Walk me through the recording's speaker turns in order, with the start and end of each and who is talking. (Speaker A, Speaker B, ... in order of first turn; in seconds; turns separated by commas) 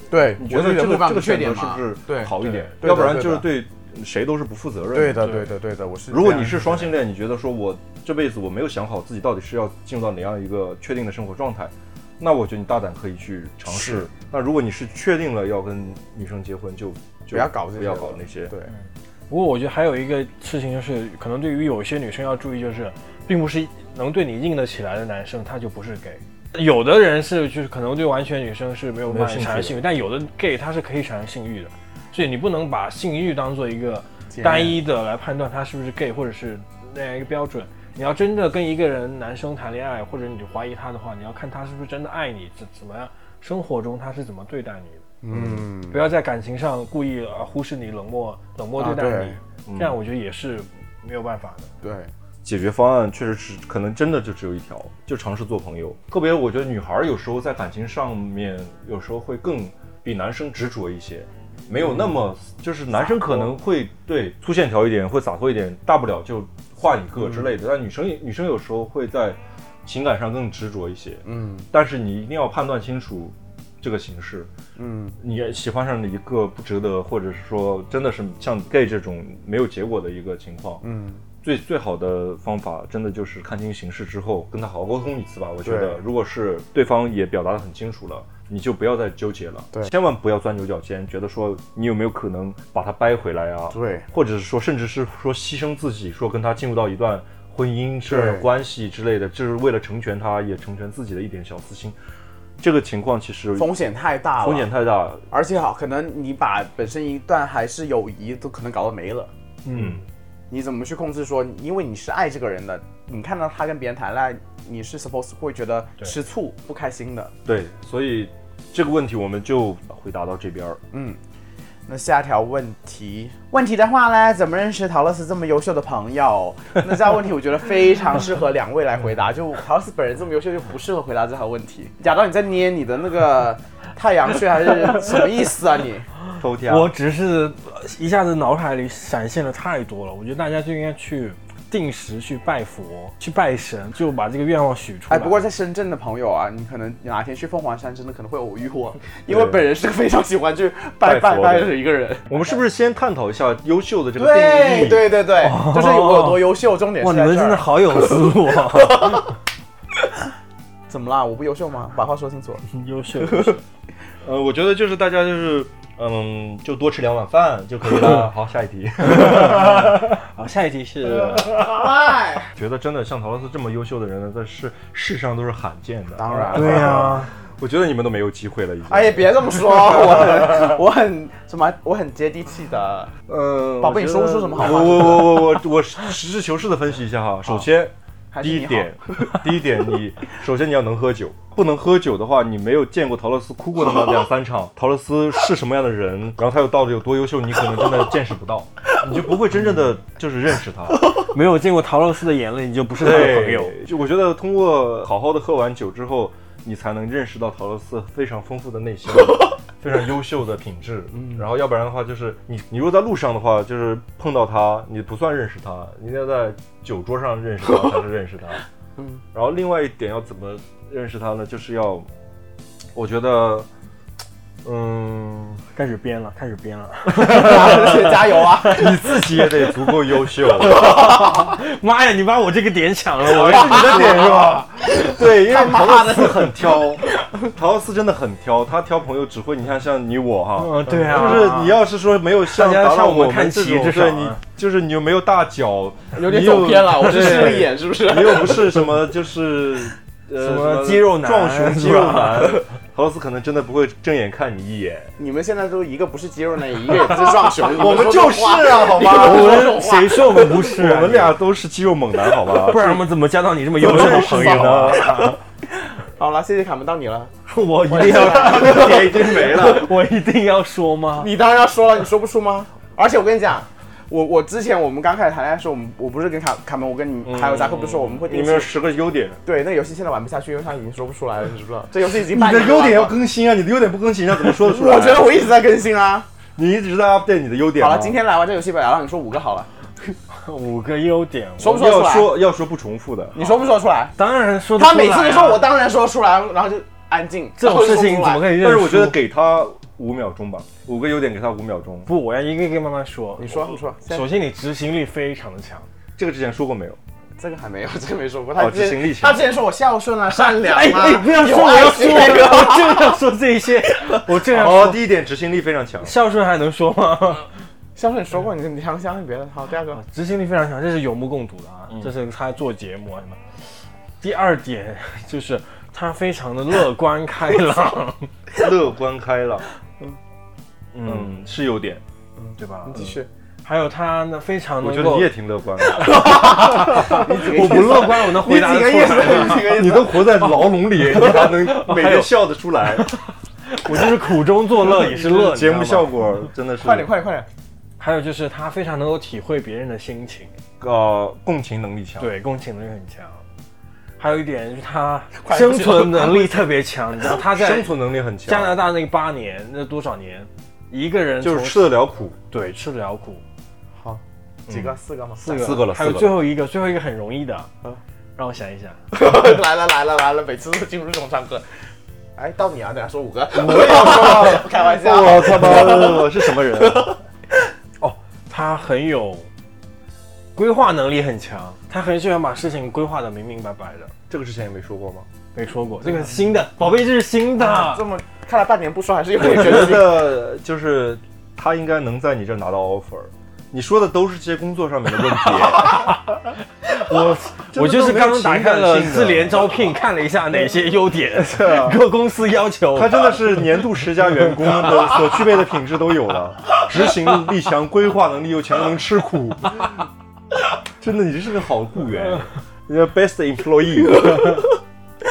Speaker A: 0.1-3.5, Speaker B: 0.4-5.3, Speaker A: 4.9-6.9, Speaker B: 6.1-18.5, Speaker A: 13.7-14.1, Speaker A: 17.3-18.7, Speaker C: 19.3-45.0, Speaker B: 29.1-29.8, Speaker A: 34.3-34.8, Speaker A: 45.2-46.0, Speaker B: 45.3-45.6, Speaker C: 45.9-51.7, Speaker A: 48.8-49.4, Speaker B: 49.6-50.0, Speaker A: 51.8-52.1, Speaker B: 52.4-74.5, Speaker A: 61.8-62.1, Speaker A: 63.0-63.6, Speaker A: 67.2-67.5, Speaker A: 71.2-71.7, Speaker A: 74.8-75.2, Speaker B: 75.2-80.8, Speaker A: 80.8-81.2, Speaker B: 81.4-102.0, Speaker A: 85.6-86.0, Speaker A: 93.7-94.0, Speaker A: 98.1-98.5, Speaker B: 102.6-103.7, Speaker A: 103.5-104.7, Speaker B: 104.4-105.2, Speaker A: 105.3-109.3, Speaker C: 109.6-110.0, Speaker B: 109.7-110.0, Speaker A: 110.5-117.3, Speaker B: 117.5-120.8, Speaker A: 120.9-121.2, Speaker A: 121.9-136.1, Speaker B: 136.4-136.9, Speaker C: 136.6-145.5, Speaker A: 145.1-152.6, Speaker B: 149.3-149.6, Speaker B: 151.0-151.7, Speaker B: 152.3-155.1, Speaker A: 154.2-159.2, Speaker C: 155.4-159.3, Speaker A: 160.9-162.6, Speaker C: 162.7-163.6, Speaker B: 164.2-170.1, Speaker C: 169.1-171.6, Speaker A: 171.4-172.5, Speaker B: 172.5-180.8, Speaker A: 176.2-177.2, Speaker C: 176.5-177.3, Speaker A: 178.9-183.1, Speaker B: 183.3-201.2, Speaker A: 183.8-185.4, Speaker A: 188.3-189.4, Speaker C: 200.9-203.7, Speaker B: 203.0-218.6, Speaker A: 211.1-211.4, Speaker A: 219.0-219.2, Speaker B: 219.3-222.1, Speaker B: 222.9-223.7, Speaker C: 224.6-234.6, Speaker A: 227.1-229.0, Speaker B: 228.6-231.1, Speaker A: 230.9-231.5, Speaker B: 233.3-255.1, Speaker A: 233.4-237.3, Speaker C: 240.6-241.8, Speaker C: 242.5-244.4, Speaker A: 246.1-248.8, Speaker C: 247.0-247.7, Speaker C: 250.4-252.6, Speaker A: 255.2-260.6, Speaker B: 257.6-259.7, Speaker C: 259.1-261.4, Speaker B: 260.6-263.0, Speaker C: 262.5-265.4, Speaker B: 263.8-265.3, Speaker A: 263.8-265.2, Speaker A: 265.8-267.3, Speaker C: 267.5-271.3, Speaker A: 267.9-269.3, Speaker B: 268.2-269.9, Speaker A: 271.2-278.7, Speaker B: 277.2-279.4, Speaker A: 279.4-283.2, Speaker B: 282.1-285.3, Speaker A: 284.4-286.3, Speaker B: 286.6-288.2, Speaker A: 287.8-289.7, Speaker C: 290.3-291.8, Speaker A: 291.6-292.3, Speaker B: 291.6-293.4, Speaker A: 293.3-294.1, Speaker C: 294.2-295.7, Speaker A: 294.7-298.5, Speaker C: 297.6-299.2, Speaker B: 298.6-302.1, Speaker C: 302.1-305.9, Speaker A: 303.4-304.3, Speaker B: 306.2-307.0, Speaker A: 307.4-313.2, Speaker B: 308.6-309.4, Speaker C: 310.3-315.0, Speaker B: 314.3-316.1, Speaker C: 316.0-317.5, Speaker A: 317.9-320.0, Speaker C: 319.9-323.4, Speaker C: 324.2-328.3, Speaker B: 328.6-329.6, Speaker C: 330.9-331.3, Speaker B: 331.0-332.0, Speaker A: 332.4-333.3, Speaker C: 332.6-335.3, Speaker B: 334.8-337.9, Speaker C: 335.9-339.7, Speaker A: 336.0-340.4, Speaker B: 339.2-343.1, Speaker C: 341.2-342.3, Speaker C: 342.8-346.3, Speaker B: 344.8-347.1, Speaker A: 346.8-347.5, Speaker C: 348.0-350.5, Speaker B: 350.8-352.3, Speaker C: 352.2-353.4, Speaker C: 354.2-357.9, Speaker A: 355.4-356.5, Speaker B: 357.4-358.8, Speaker C: 358.4-363.4, Speaker B: 361.4-362.4, Speaker A: 363.9-365.8, Speaker B: 364.7-366.4, Speaker C: 365.4-367.7, Speaker C: 368.4-369.0, Speaker A: 369.1-371.6, Speaker A: 372.4-376.2, Speaker B: 373.6-377.2, Speaker C: 375.6-376.1, Speaker C: 378.0-379.5, Speaker C: 380.6-384.1, Speaker B: 384.3-385.3, Speaker C: 385.5-388.0, Speaker A: 387.6-390.3, Speaker B: 389.4-396.2, Speaker C: 395.8-396.3, Speaker C: 396.8-403.8, Speaker B: 397.7-399.9, Speaker B: 401.4-402.0, Speaker B: 402.9-410.1, Speaker C: 404.6-405.1, Speaker B: 411.0-414.7